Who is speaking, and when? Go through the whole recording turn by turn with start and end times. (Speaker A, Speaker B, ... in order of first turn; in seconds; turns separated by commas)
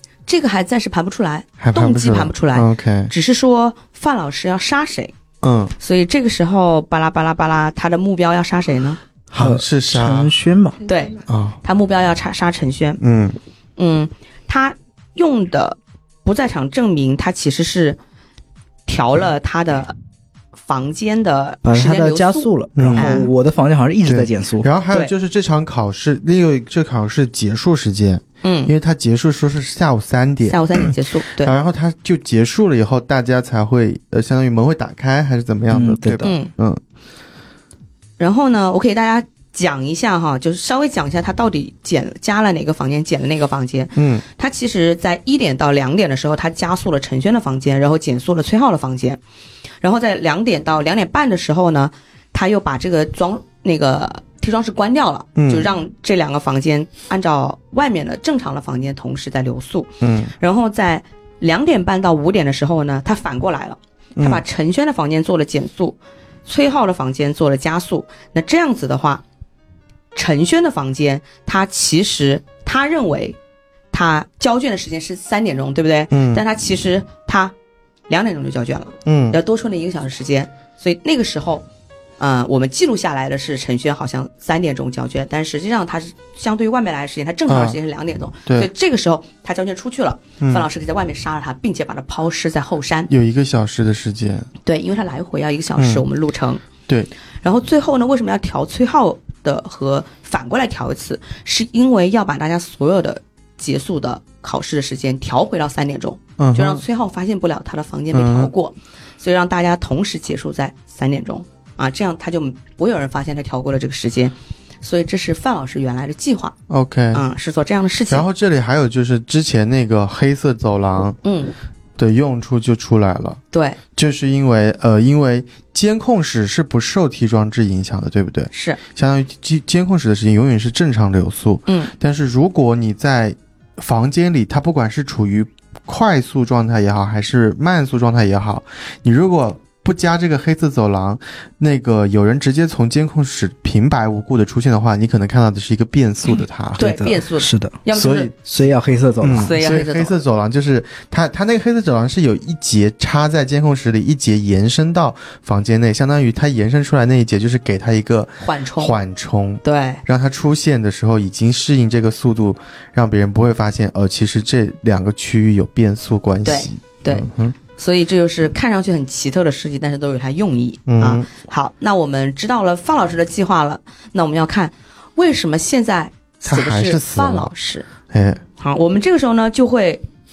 Speaker A: 0.3-5.1, Speaker B: 1.6-3.1, Speaker B: 5.4-5.7, Speaker A: 5.8-9.0, Speaker C: 9.3-10.8, Speaker B: 9.3-10.3, Speaker A: 10.9-13.0, Speaker B: 11.3-11.6, Speaker B: 13.0-13.4, Speaker A: 13.8-18.0, Speaker A: 18.9-19.9, Speaker A: 20.6-23.3, Speaker C: 21.6-24.7, Speaker B: 22.8-23.2, Speaker B: 24.0-36.8, Speaker A: 28.4-28.7, Speaker A: 30.4-31.5, Speaker C: 35.7-36.3, Speaker A: 36.2-36.5, Speaker A: 38.2-49.2, Speaker B: 44.0-44.2, Speaker A: 49.8-69.2, Speaker B: 55.4-55.7, Speaker B: 60.0-60.3, Speaker B: 64.2-64.4, Speaker A: 70.1-73.4, Speaker A: 73.9-77.5, Speaker B: 76.1-76.4, Speaker A: 78.1-81.7, Speaker B: 79.0-79.4, Speaker A: 82.2-93.1, Speaker B: 87.5-87.8, Speaker B: 90.4-90.7, Speaker B: 93.1-94.5, Speaker A: 94.6-96.6, Speaker B: 95.8-96.0, Speaker A: 97.4-116.5, Speaker B: 106.4-106.8, Speaker B: 108.1-108.5, Speaker B: 116.7-117.2, Speaker A: 117.1-118.3, Speaker B: 118.1-121.2, Speaker A: 121.2-121.5, Speaker B: 122.0-123.4, Speaker A: 123.5-123.8, Speaker B: 124.0-147.0, Speaker A: 128.5-128.8, Speaker A: 131.7-131.9, Speaker C: 146.8-147.8, Speaker A: 146.8-148.3, Speaker B: 147.9-148.3, Speaker C: 148.4-149.6, Speaker B: 149.2-167.5, Speaker A: 149.3-150.1, Speaker A: 158.4-158.9, Speaker A: 159.6-160.0, Speaker A: 166.4-177.9, Speaker B: 170.9-171.3, Speaker B: 176.4-177.5, Speaker B: 178.1-178.4, Speaker A: 178.6-180.0